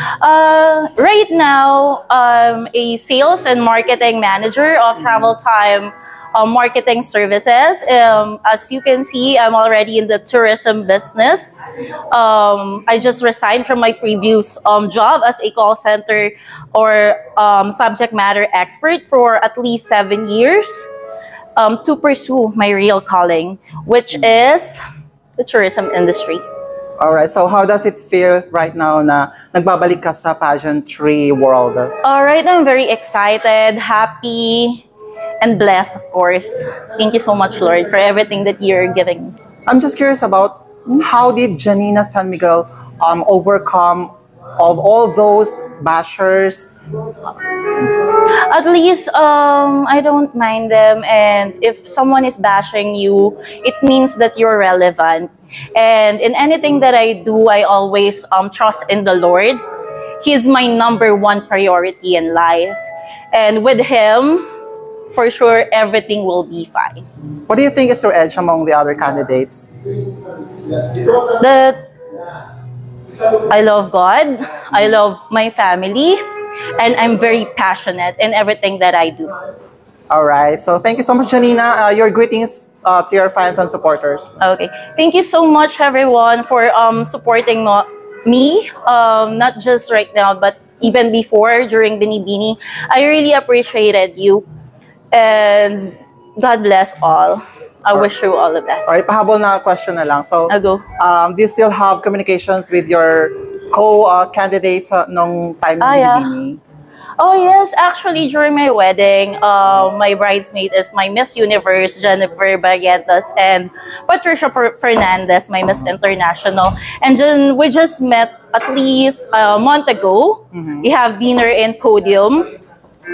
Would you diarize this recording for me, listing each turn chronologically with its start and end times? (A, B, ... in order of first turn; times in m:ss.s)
0:00.2-0:20.9 A
0:21.6-0:24.8 A
0:25.4-0:26.4 A
0:27.0-0:31.9 B
0:32.0-0:34.8 A
0:35.4-0:39.4 A
0:39.7-0:46.7 B
0:48.2-0:59.6 A
1:00.2-1:04.5 A
1:05.1-1:07.0 A
1:07.5-1:09.7 B
1:10.8-1:11.8 A
1:13.2-1:19.4 A
1:20.1-1:24.3 B
1:24.4-1:34.4 A
1:35.1-1:39.0 A
1:38.9-1:46.6 B
1:40.5-1:40.8 A
1:45.8-1:46.3 A
1:47.2-2:02.5 A
2:00.5-2:00.8 B